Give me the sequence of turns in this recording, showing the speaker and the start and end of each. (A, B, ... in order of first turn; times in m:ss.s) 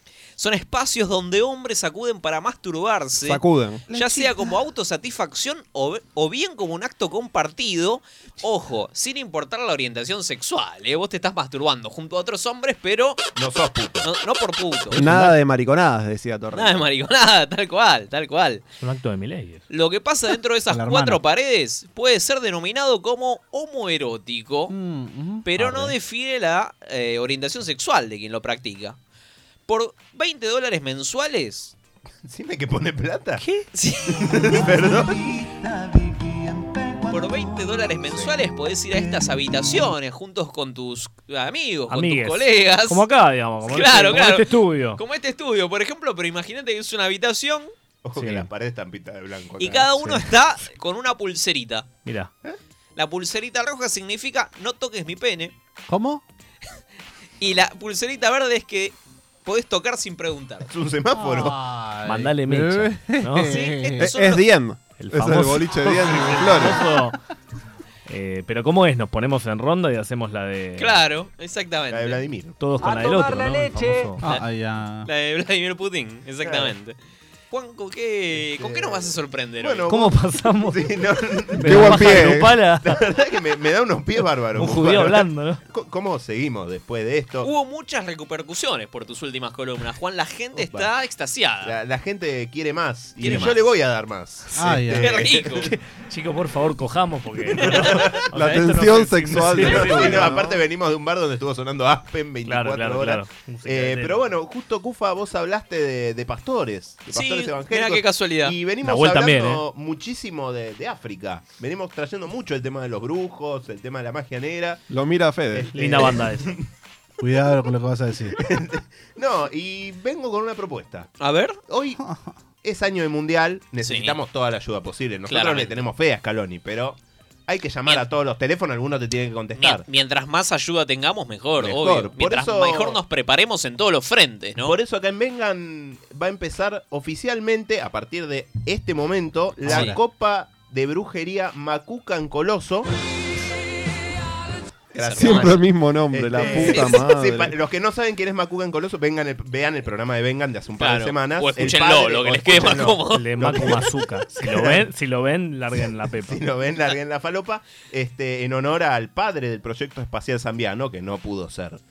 0:00.4-0:13.3 A
0:03.2-0:04.3 B
0:13.4-0:14.0 C
0:14.0-0:15.1 A
0:14.9-0:16.8 B
0:16.5-0:18.6 A
0:18.8-0:19.6 D
0:19.7-0:24.7 A
0:20.7-0:21.2 E
0:24.7-0:25.5 E
0:25.4-0:29.0 A
0:25.6-0:26.0 D
0:29.7-0:31.8 A
0:32.2-0:33.4 C
0:33.4-0:33.7 D
0:33.7-0:34.7 A
0:34.2-0:35.3 C
0:37.1-0:43.0 A
0:41.9-0:45.0 D
0:43.7-0:47.7 A
0:48.0-0:50.2 C
0:48.2-0:48.5 D
0:49.6-0:51.9 A
0:52.0-0:52.3 D
0:53.0-0:55.5 A
0:55.9-0:56.2 E
0:57.4-1:00.7 A
1:00.7-1:01.6 C
1:01.2-1:04.1 E
1:02.0-1:03.7 D
1:03.4-1:04.4 A
1:04.0-1:06.8 B
1:05.0-1:07.2 D
1:08.1-1:11.0 D
1:10.8-1:12.2 A
1:11.9-1:12.6 C
1:12.6-1:14.2 D
1:14.2-1:15.1 E
1:15.0-1:17.0 A
1:16.4-1:16.7 C
1:17.5-1:19.8 A
1:18.4-1:27.5 C
1:19.9-1:23.0 D
1:21.6-1:22.6 B
1:24.5-1:25.6 D
1:27.4-1:31.8 A
1:30.6-1:30.9 C
1:31.6-1:35.3 C
1:33.2-1:33.6 A
1:34.6-1:35.3 E
1:34.9-1:35.7 A
1:35.6-1:40.4 D
1:37.9-1:38.2 C
1:38.3-1:40.6 B
1:39.5-1:54.8 C
1:42.5-1:44.3 D
1:47.1-1:48.6 A
1:48.8-1:49.6 D
1:54.9-1:55.7 B
1:55.5-1:56.6 C
1:55.7-1:56.6 D
1:57.2-1:58.4 E
1:58.4-2:01.1 C
2:01.2-2:01.6 A
2:01.7-2:02.0 C
2:02.6-2:09.8 C
2:03.8-2:04.2 A
2:05.3-2:05.7 A
2:09.6-2:14.8 A
2:11.6-2:13.0 C
2:14.6-2:22.9 C
2:19.7-2:20.0 A
2:19.7-2:20.0 E
2:24.9-2:34.8 C
2:25.0-2:25.6 A
2:25.2-2:27.6 B
2:26.4-2:27.0 A
2:30.8-2:33.3 A
2:33.1-2:36.4 D
2:36.2-2:41.8 C